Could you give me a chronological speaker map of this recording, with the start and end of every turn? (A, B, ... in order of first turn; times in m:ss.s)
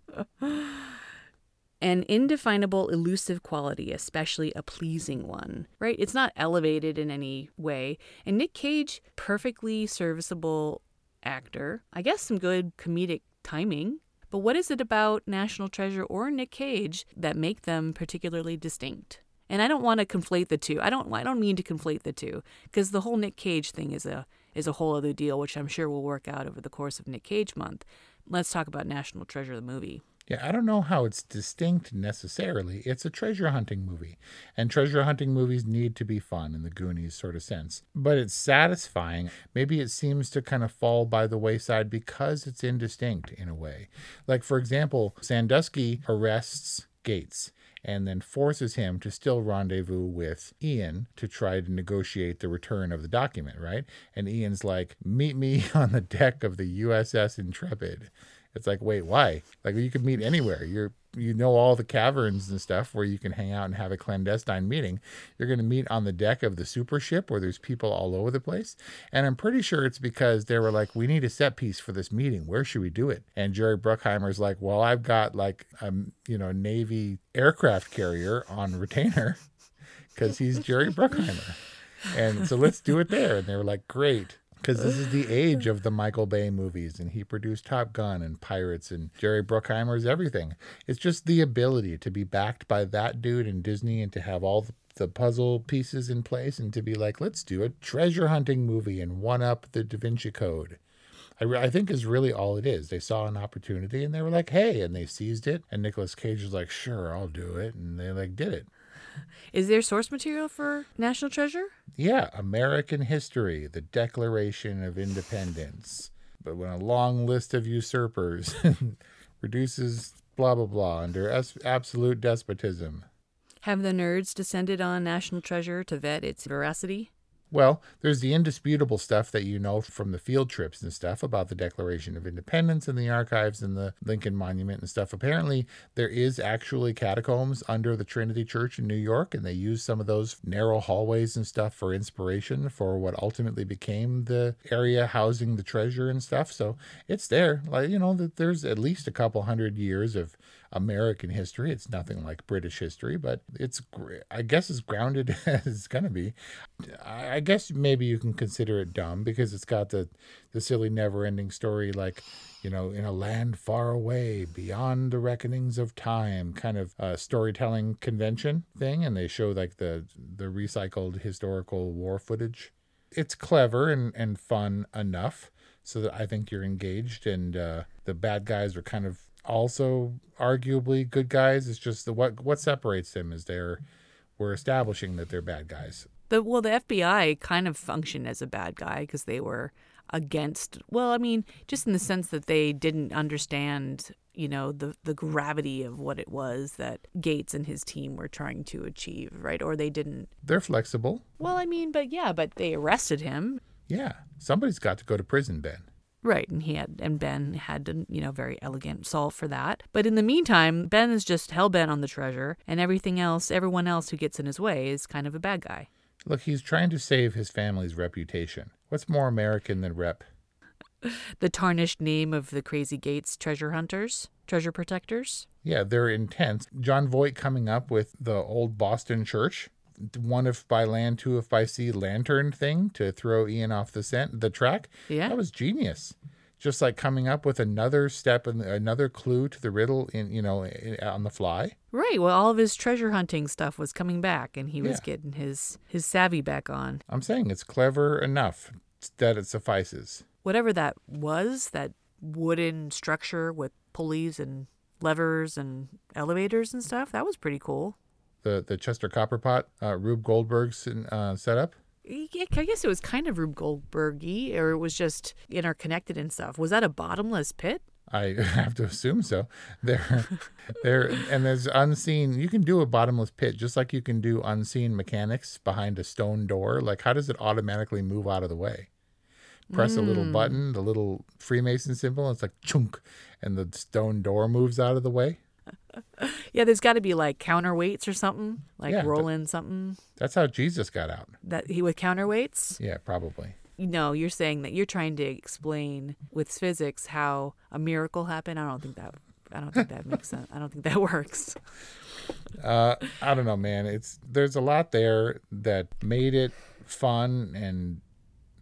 0:00.4-0:00.7 A
0:01.8-0:30.0 A
0:30.3-1:19.4 B
1:20.2-1:40.8 B
1:41.4-1:48.7 B
1:49.5-1:51.7 A
1:52.0-2:03.1 B
2:03.6-2:07.1 A
2:07.5-3:03.8 B
3:04.4-3:06.1 B
3:06.3-3:20.3 A
3:20.4-3:21.2 B
3:21.4-3:23.6 A
3:23.9-3:25.9 B
3:26.2-3:35.9 A
3:36.2-3:40.3 B
3:41.0-3:45.5 A
3:45.6-4:01.8 B
3:55.1-3:55.4 A
4:01.9-4:07.0 A
4:07.1-4:10.2 B
4:10.4-4:18.0 A
4:18.4-4:21.8 B
4:22.0-4:27.8 A
4:28.1-4:38.9 B
4:39.7-4:40.6 A
4:39.7-4:45.4 B
4:46.2-4:50.0 A
4:48.9-4:49.3 B
4:50.2-4:51.4 B
4:51.4-4:52.8 A
4:52.8-4:53.6 B
4:53.8-5:01.6 A
5:02.6-5:08.0 B